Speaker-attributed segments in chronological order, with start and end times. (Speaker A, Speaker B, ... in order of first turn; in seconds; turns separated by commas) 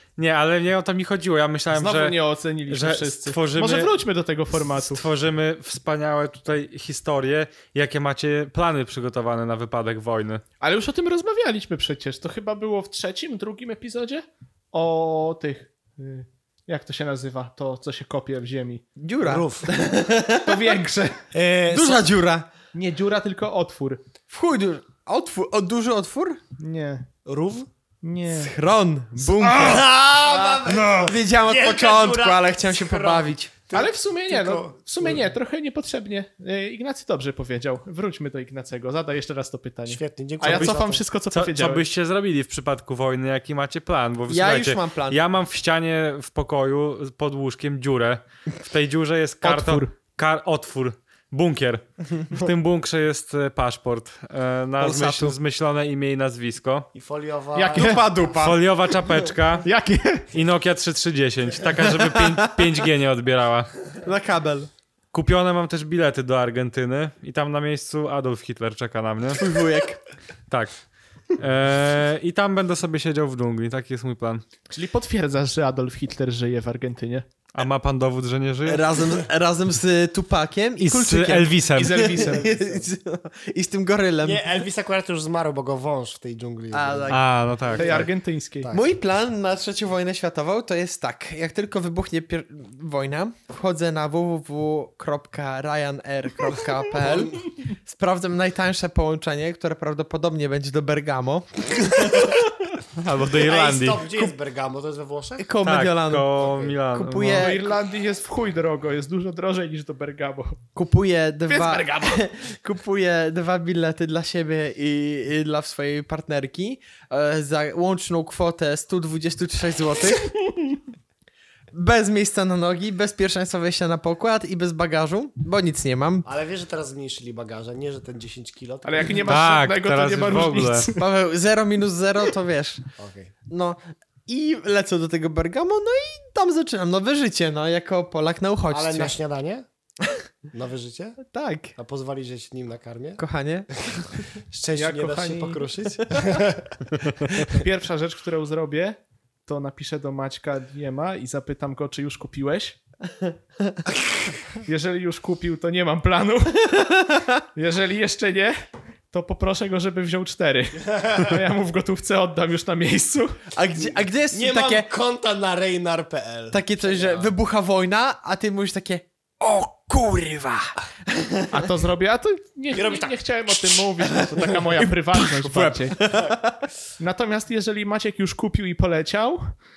Speaker A: 0.2-4.0, Speaker B: 1.7-5.0, Speaker A: 4.7-10.4, Speaker B: 10.6-18.8, Speaker C: 19.0-20.8, Speaker D: 19.2-19.7, Speaker B: 20.4-21.2, Speaker D: 21.3-22.1, Speaker C: 21.7-22.5, Speaker B: 22.7-24.0, Speaker C: 24.3-26.4, Speaker B: 26.6-27.1, Speaker D: 27.2-27.7, Speaker B: 28.0-28.5, Speaker C: 28.3-33.5, Speaker D: 29.4-35.3, Speaker B: 33.7-41.8, Speaker D: 39.9-41.0, Speaker A: 40.4-40.8, Speaker A: 41.3-56.9, Speaker C: 44.3-45.2, Speaker B: 49.4-49.9, Speaker C: 54.8-55.4, Speaker D: 56.9-58.4, Speaker B: 57.5-58.2, Speaker C: 57.7-58.6, Speaker A: 58.3-59.7, Speaker B: 59.6-60.3, Speaker A: 60.3-63.7, Speaker C: 61.9-62.6, Speaker C: 64.0-64.7, Speaker A: 65.1-69.4, Speaker C: 69.4-70.0, Speaker A: 70.5-70.8, Speaker A: 71.3-74.4, Speaker B: 74.7-77.3, Speaker A: 77.5-79.0, Speaker C: 78.7-84.4, Speaker A: 80.8-82.2, Speaker B: 81.8-82.6, Speaker D: 82.5-82.8, Speaker D: 84.2-88.1, Speaker C: 86.7-87.3, Speaker A: 87.1-88.0, Speaker B: 87.8-88.7, Speaker D: 88.6-88.9, Speaker C: 88.7-102.3, Speaker A: 102.9-104.3, Speaker D: 103.4-105.5, Speaker C: 105.4-106.3, Speaker A: 105.6-107.6, Speaker D: 106.4-106.8, Speaker C: 106.9-107.7, Speaker B: 107.3-110.6, Speaker C: 110.8-120.3, Speaker B: 111.5-112.2, Speaker C: 121.7-126.3, Speaker D: 126.2-129.3, Speaker B: 128.8-131.0, Speaker A: 129.2-130.9, Speaker C: 130.9-132.8, Speaker D: 133.0-133.3, Speaker C: 133.5-139.2, Speaker D: 138.7-139.7, Speaker D: 140.5-141.2, Speaker C: 141.2-141.8, Speaker D: 141.8-143.2, Speaker C: 143.2-144.1, Speaker D: 143.8-147.6, Speaker B: 144.8-145.7, Speaker B: 147.4-152.8, Speaker B: 154.6-163.4, Speaker D: 160.9-161.2, Speaker C: 163.5-164.9, Speaker D: 164.3-167.3, Speaker C: 166.5-171.3, Speaker B: 171.5-176.1, Speaker D: 172.7-173.2, Speaker C: 175.1-176.7, Speaker B: 177.0-179.6